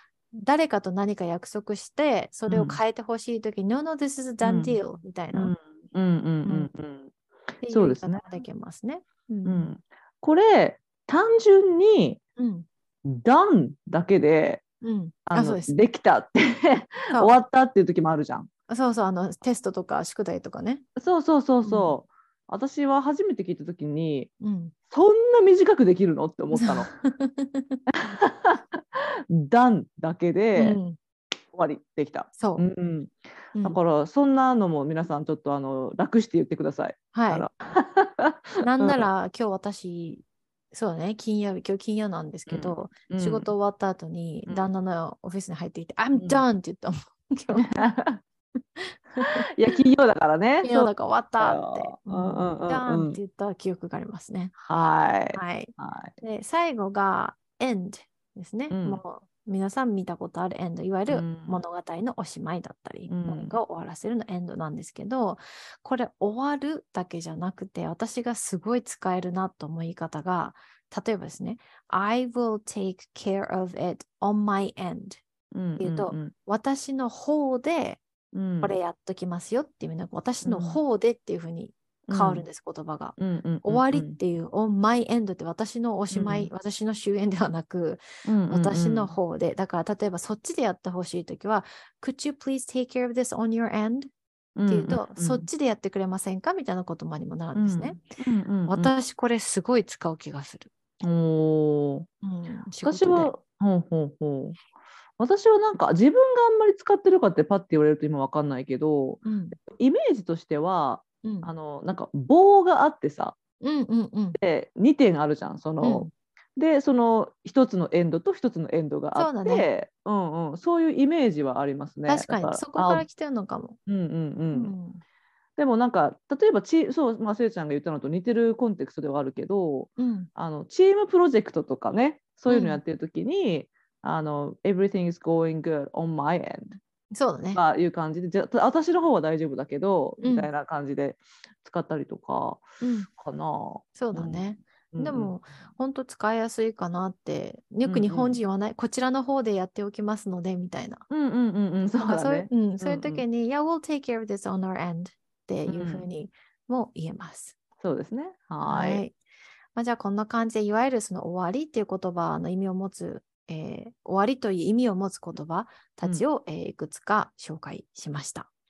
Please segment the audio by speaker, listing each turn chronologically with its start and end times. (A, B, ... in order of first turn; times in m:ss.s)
0:00.3-0:05.5 A
0:02.5-0:02.8 B
0:04.4-0:04.8 B
0:05.3-0:07.1 B
0:07.6-0:09.7 A
0:07.7-0:08.4 B
0:09.4-0:12.2 B
0:12.4-0:12.7 A
0:13.0-0:14.6 B
0:14.8-0:15.8 A
0:15.3-0:18.5 B
0:18.7-0:20.8 A
0:21.0-0:24.3 B
0:21.6-0:22.0 A
0:24.4-0:24.8 A
0:24.9-0:26.9 B
0:26.5-0:27.8 A
0:28.1-0:30.8 B
0:30.5-0:31.0 A
0:31.5-0:39.0 B
0:32.4-0:32.7 A
0:37.1-0:37.5 A
0:38.6-0:47.9 A
0:42.5-0:43.5 B
0:46.2-0:46.4 B
0:47.5-0:48.2 B
0:49.2-0:49.4 A
0:49.5-0:53.2 B
0:50.6-0:54.6 A
0:54.7-0:56.1 B
0:55.3-1:15.2 A
0:58.7-0:59.0 B
1:01.1-1:01.6 B
1:03.1-1:03.6 B
1:15.5-1:16.3 B
1:15.8-1:18.0 A
1:18.3-1:18.8 B
1:18.6-1:34.1 A
1:20.4-1:20.8 B
1:22.1-1:22.5 B
1:23.2-1:24.2 B
1:26.1-1:26.5 B
1:28.2-1:29.2 B
1:34.6-1:35.5 B
1:34.7-1:38.1 A
1:37.6-1:38.9 B
1:38.7-1:40.7 A
1:41.0-1:42.1 B
1:42.2-1:43.3 A
1:42.8-1:44.6 B
1:45.2-1:53.4 B
1:49.2-1:49.6 A
1:51.2-1:51.5 A
1:53.6-1:54.4 A
1:54.4-2:03.1 B
1:55.8-1:56.1 A
1:59.2-1:59.7 A
2:02.1-2:03.8 A
2:03.9-2:04.7 B
2:04.5-2:05.0 A
2:05.6-2:16.8 B
2:10.0-2:10.3 A
2:12.5-2:12.8 A
2:17.1-2:17.6 A
2:17.5-2:22.7 B
2:20.2-2:20.5 A
2:22.8-2:23.1 A
2:23.2-2:25.3 B
2:24.0-2:31.1 A
2:27.9-2:28.4 B
2:31.1-2:33.2 B
2:32.0-2:37.6 A
2:35.7-2:36.0 B
2:37.8-2:39.0 B
2:38.6-2:39.1 A
2:39.8-2:48.5 A